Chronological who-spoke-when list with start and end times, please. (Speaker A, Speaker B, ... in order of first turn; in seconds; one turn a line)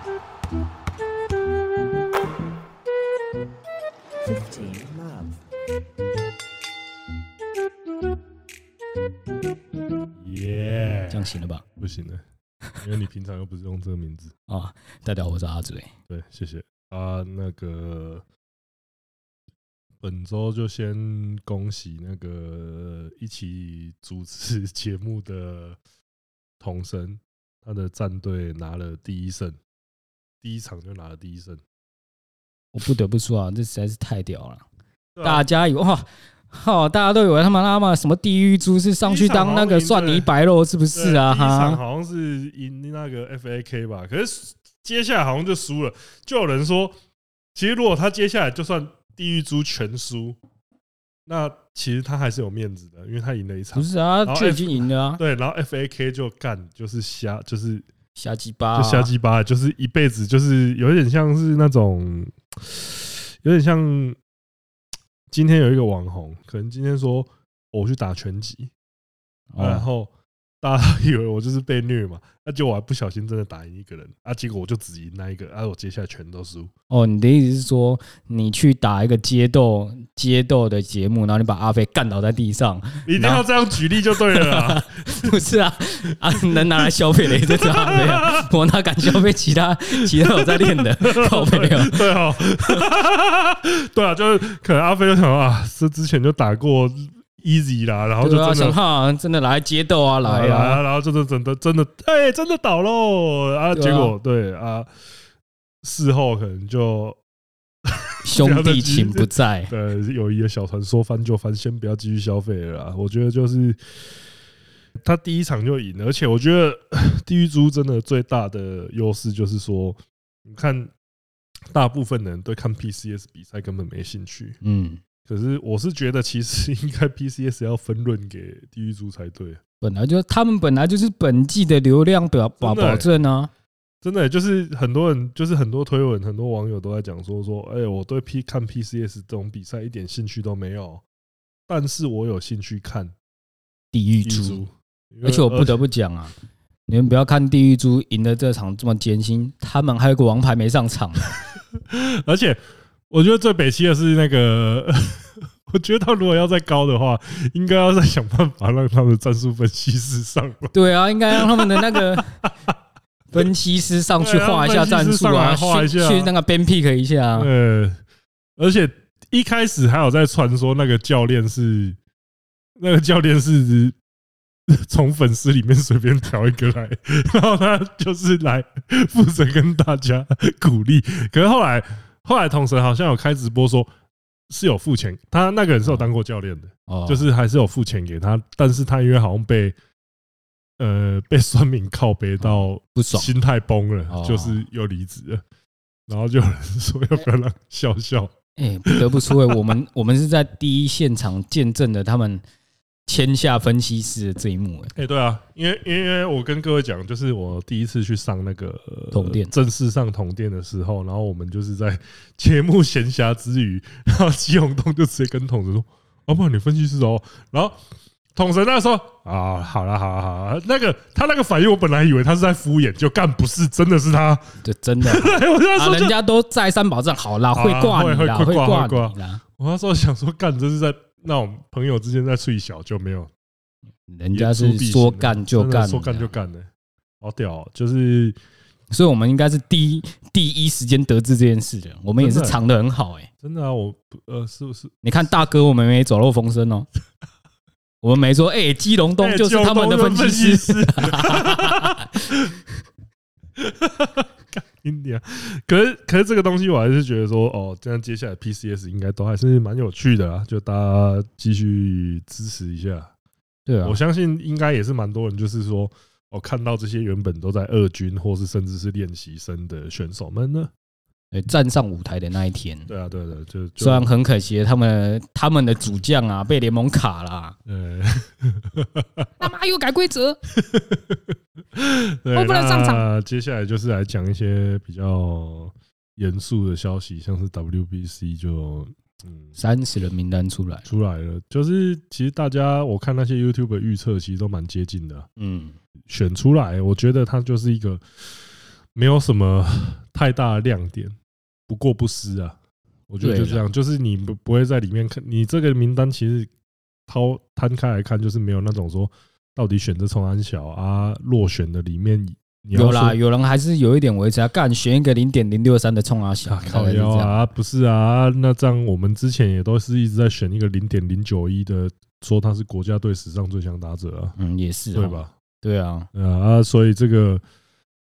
Speaker A: 10.2-11.2
Speaker B: 11.1-11.6
Speaker A: 11.8-12.2
Speaker A: 12.8-14.3
Speaker B: 14.5-15.9
Speaker A: 16.1-18.2
Speaker A: 20.0-25.8
Speaker A: 26.6-29.6
Speaker A: 30.4-31.6
Speaker B: 32.7-34.6
Speaker A: 35.1-35.5
Speaker B: 35.2-41.8
Speaker A: 39.0-40.3
Speaker A: 40.9-46.9
Speaker A: 47.5-50.4
Speaker A: 51.2-57.9
Speaker B: 53.7-55.2
Speaker B: 58.1-59.1
Speaker A: 58.8-64.2
Speaker A: 65.3-68.7
Speaker B: 69.5-69.9
Speaker A: 69.6-70.1
Speaker A: 70.6-76.7
Speaker B: 76.9-92.2
Speaker A: 83.0-85.3
Speaker A: 87.3-88.5
Speaker A: 90.2-98.8
Speaker B: 98.2-100.8
Speaker A: 100.2-104.9
Speaker B: 103.7-104.1
Speaker A: 105.8-107.2
Speaker A: 107.9-113.8
Speaker B: 108.2-109.7
Speaker A: 115.0-120.9
Speaker A: 121.7-124.6
Speaker B: 124.6-125.0
Speaker A: 125.2-129.6
Speaker B: 129.8-133.5
Speaker A: 132.6-133.1
Speaker A: 134.0-141.0
Speaker A: 141.7-143.1
Speaker B: 143.9-144.6
Speaker A: 144.2-145.8
Speaker B: 145.2-146.3
Speaker B: 146.9-151.4
Speaker A: 151.8-160.7
Speaker B: 160.7-162.3
Speaker A: 161.3-162.7
Speaker B: 163.3-167.5
Speaker A: 164.2-166.3
Speaker A: 167.3-168.0
Speaker A: 168.6-172.0
Speaker A: 172.8-173.9
Speaker A: 174.7-183.9
Speaker A: 184.5-189.8
Speaker B: 186.9-187.3
Speaker A: 190.8-195.4
Speaker B: 192.4-193.3
Speaker B: 194.1-194.6
Speaker A: 196.1-198.3
Speaker B: 198.6-202.4
Speaker A: 198.8-199.6
Speaker B: 203.1-204.9
Speaker A: 204.9-217.8
Speaker B: 209.1-209.5
Speaker A: 218.3-226.1
Speaker B: 224.6-229.4
Speaker A: 227.5-233.3
Speaker B: 234.1-236.3
Speaker A: 234.3-236.7
Speaker A: 237.2-238.3
Speaker B: 238.9-243.3
Speaker A: 242.2-242.6
Speaker A: 243.4-245.0
Speaker B: 245.0-246.9
Speaker B: 248.0-252.2
Speaker A: 249.2-252.6
Speaker A: 253.6-263.1
Speaker B: 263.6-264.0
Speaker A: 263.8-270.7
Speaker B: 271.3-272.9
Speaker A: 272.9-274.1
Speaker B: 273.8-277.6
Speaker A: 277.6-279.3
Speaker B: 279.4-280.4
Speaker A: 280.6-289.5
Speaker B: 282.3-283.1
Speaker B: 289.6-290.9
Speaker A: 290.9-295.3
Speaker B: 295.4-295.8
Speaker A: 296.1-298.0
Speaker A: 298.9-301.1
Speaker A: 301.7-302.6
Speaker A: 303.1-306.5
Speaker B: 303.2-303.6
Speaker A: 307.1-313.2
Speaker B: 312.7-317.4
Speaker A: 316.4-324.3
Speaker B: 324.4-326.1
Speaker A: 324.9-325.3
Speaker A: 326.1-327.4